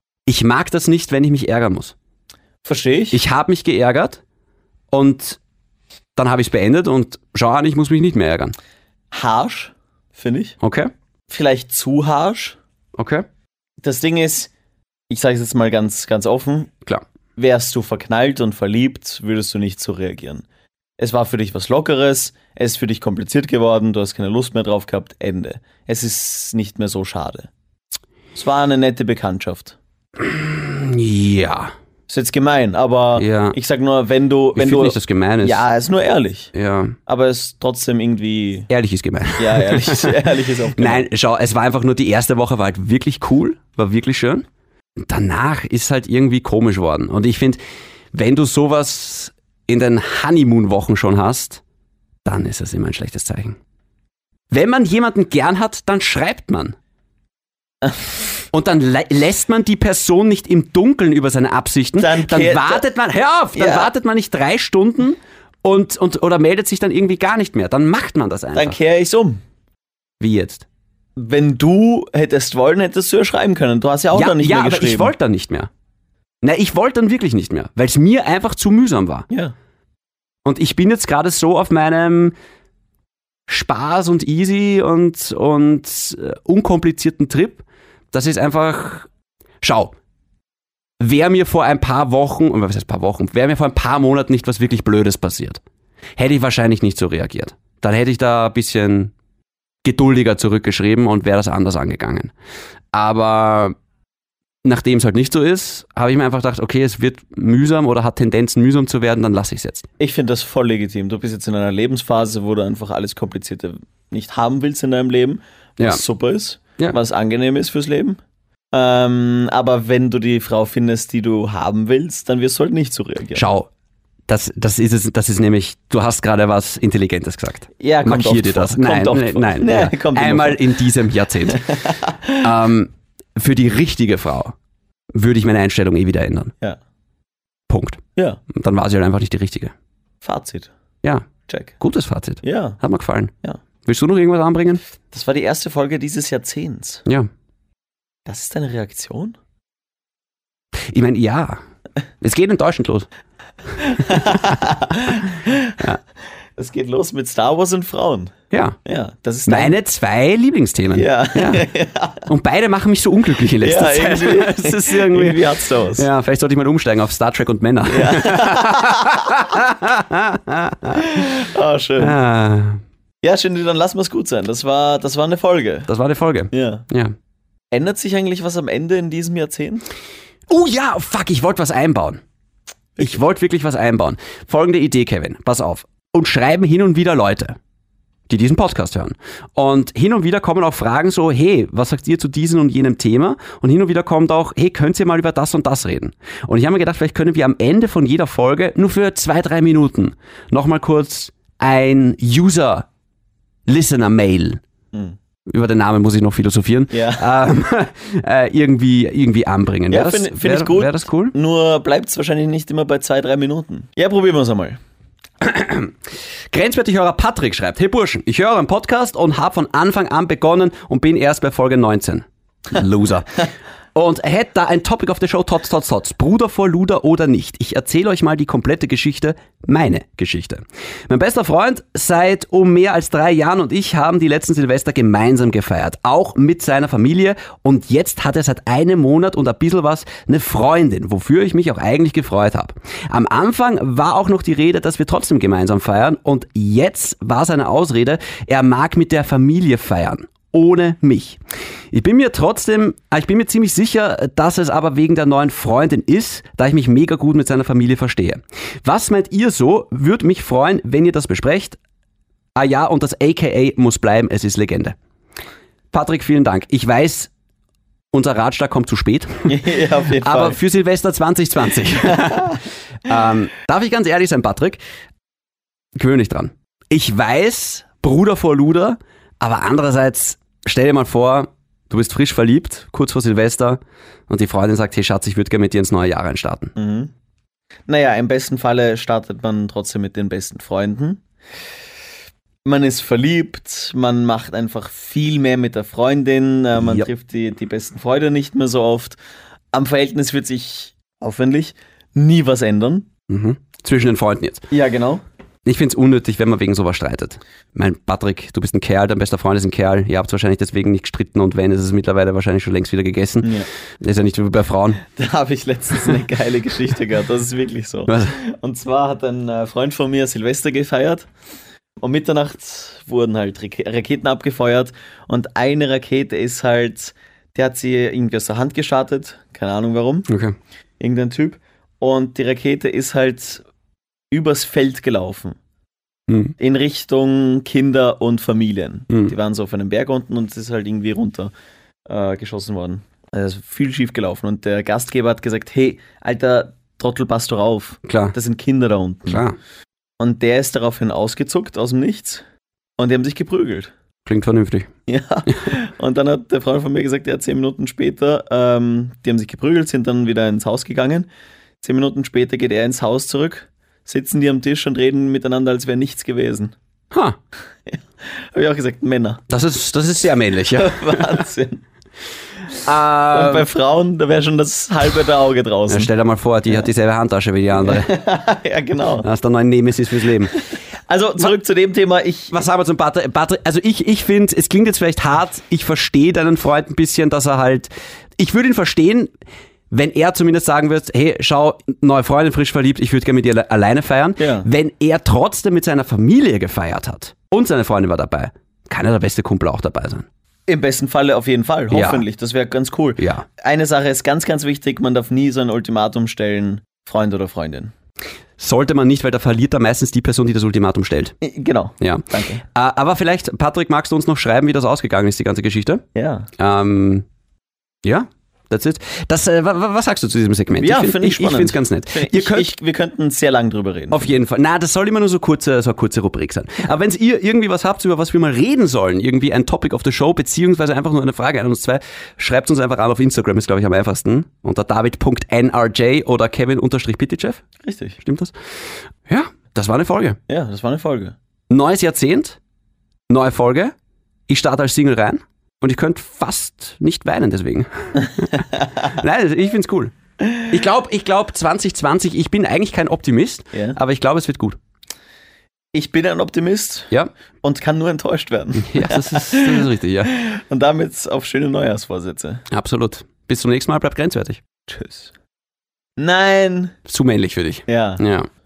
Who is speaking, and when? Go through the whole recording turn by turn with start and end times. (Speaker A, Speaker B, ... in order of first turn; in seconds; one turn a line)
Speaker A: 0.2-1.9
Speaker B: 2.6-3.2
Speaker A: 3.1-4.2
Speaker A: 4.9-5.4
Speaker A: 6.2-8.5
Speaker B: 9.1-10.6
Speaker A: 10.6-10.9
Speaker B: 11.3-12.6
Speaker A: 13.0-13.2
Speaker B: 13.8-14.5
Speaker B: 15.1-16.7
Speaker B: 17.4-20.4
Speaker B: 21.0-27.5
Speaker B: 28.3-29.8
Speaker A: 30.2-31.7
Speaker B: 32.1-36.5
Speaker A: 33.1-33.6
Speaker A: 34.5-35.6
Speaker A: 36.5-37.0
Speaker B: 37.0-38.7
Speaker A: 38.7-44.4
Speaker B: 39.4-41.1
Speaker A: 45.0-47.6
Speaker A: 48.1-51.6
Speaker A: 52.2-53.6
Speaker A: 54.5-56.8
Speaker B: 57.8-58.1
Speaker A: 58.5-68.8
Speaker B: 62.0-62.8
Speaker B: 63.5-63.9
Speaker B: 68.5-69.4
Speaker A: 70.2-70.6
Speaker B: 71.2-75.1
Speaker A: 74.1-75.7
Speaker A: 76.4-79.2
Speaker A: 80.4-82.3
Speaker A: 83.5-89.1
Speaker A: 89.6-89.9
Speaker A: 91.0-95.6
Speaker A: 96.2-99.1
Speaker A: 99.8-102.3
Speaker A: 102.9-103.7
Speaker A: 104.6-109.9
Speaker B: 110.0-118.2
Speaker B: 118.7-123.4
Speaker A: 123.3-123.7
Speaker A: 124.3-131.7
Speaker B: 127.8-130.6
Speaker B: 131.5-132.4
Speaker A: 132.4-134.5
Speaker A: 135.1-136.5
Speaker A: 137.7-139.7
Speaker B: 138.2-138.4
Speaker B: 140.2-140.7
Speaker A: 141.0-141.3
Speaker B: 141.5-141.8
Speaker A: 141.8-143.3
Speaker B: 142.4-142.8
Speaker A: 143.8-144.8
Speaker B: 145.1-147.0
Speaker B: 148.2-149.3
Speaker A: 150.9-151.6
Speaker A: 152.2-153.1
Speaker B: 153.8-155.8
Speaker B: 156.6-158.3
Speaker A: 158.5-158.8
Speaker B: 158.8-159.7
Speaker A: 159.5-161.7
Speaker B: 160.9-162.3
Speaker A: 162.2-171.1
Speaker B: 163.6-166.1
Speaker B: 167.9-169.4
Speaker B: 171.0-172.2
Speaker A: 172.0-172.8
Speaker B: 173.2-175.9
Speaker A: 175.9-177.1
Speaker B: 176.5-176.8
Speaker B: 177.7-179.8
Speaker A: 180.5-182.2
Speaker A: 183.0-187.6
Speaker A: 188.3-202.9
Speaker A: 203.7-204.6
Speaker A: 205.5-211.3
Speaker B: 206.9-207.2
Speaker B: 209.9-214.8
Speaker A: 215.4-216.0
Speaker A: 216.5-251.4
Speaker A: 251.9-261.8
Speaker A: 262.5-264.9
Speaker A: 265.9-267.3
Speaker A: 268.1-269.6
Speaker B: 269.5-270.6
Speaker A: 270.2-274.8
Speaker B: 272.1-272.5
Speaker A: 275.9-286.7
Speaker B: 286.8-287.1
Speaker B: 287.9-291.2
Speaker B: 292.6-299.1
Speaker A: 296.8-297.1
Speaker B: 299.7-303.1
Speaker A: 303.3-304.7
Speaker B: 304.7-305.2
Speaker A: 305.6-315.0
Speaker B: 315.1-321.3
Speaker A: 318.1-318.3
Speaker B: 322.0-330.3
Speaker A: 330.3-330.5
Speaker B: 331.0-333.6
Speaker B: 334.3-335.6
Speaker A: 336.3-336.5
Speaker B: 336.6-341.5
Speaker B: 342.1-349.4
Speaker A: 348.0-348.4
Speaker A: 349.3-349.6
Speaker B: 350.2-352.4
Speaker B: 353.0-353.9
Speaker A: 354.2-354.9
Speaker B: 355.1-361.3
Speaker B: 361.8-366.7
Speaker A: 367.1-367.4
Speaker B: 367.9-369.4
Speaker A: 369.5-371.4
Speaker B: 370.7-371.8
Speaker A: 372.8-373.7
Speaker B: 373.3-376.1
Speaker A: 375.9-378.1
Speaker B: 377.8-379.2
Speaker A: 379.2-380.5
Speaker B: 380.5-382.6
Speaker A: 382.5-389.3
Speaker A: 389.9-400.2
Speaker B: 394.4-394.7
Speaker B: 400.7-407.9
Speaker A: 401.9-402.2
Speaker A: 403.2-403.4
Speaker A: 408.6-411.3
Speaker B: 411.4-412.6
Speaker A: 412.0-416.0
Speaker B: 416.1-416.5
Speaker A: 416.6-417.2
Speaker A: 418.0-422.7
Speaker B: 420.8-424.3
Speaker A: 424.1-437.6
Speaker B: 437.8-438.2
Speaker A: 438.2-438.5
Speaker A: 439.2-440.4
Speaker B: 440.5-441.3
Speaker A: 441.7-442.6
Speaker A: 443.3-443.9
Speaker A: 444.5-450.1
Speaker B: 448.2-449.1
Speaker B: 450.4-450.7
Speaker A: 450.7-454.8
Speaker B: 453.7-454.0
Speaker B: 455.9-457.1
Speaker B: 457.6-462.6
Speaker A: 458.8-460.3
Speaker A: 462.7-464.6
Speaker B: 464.9-465.3
Speaker B: 466.2-466.9
Speaker A: 467.1-468.5
Speaker B: 467.9-468.2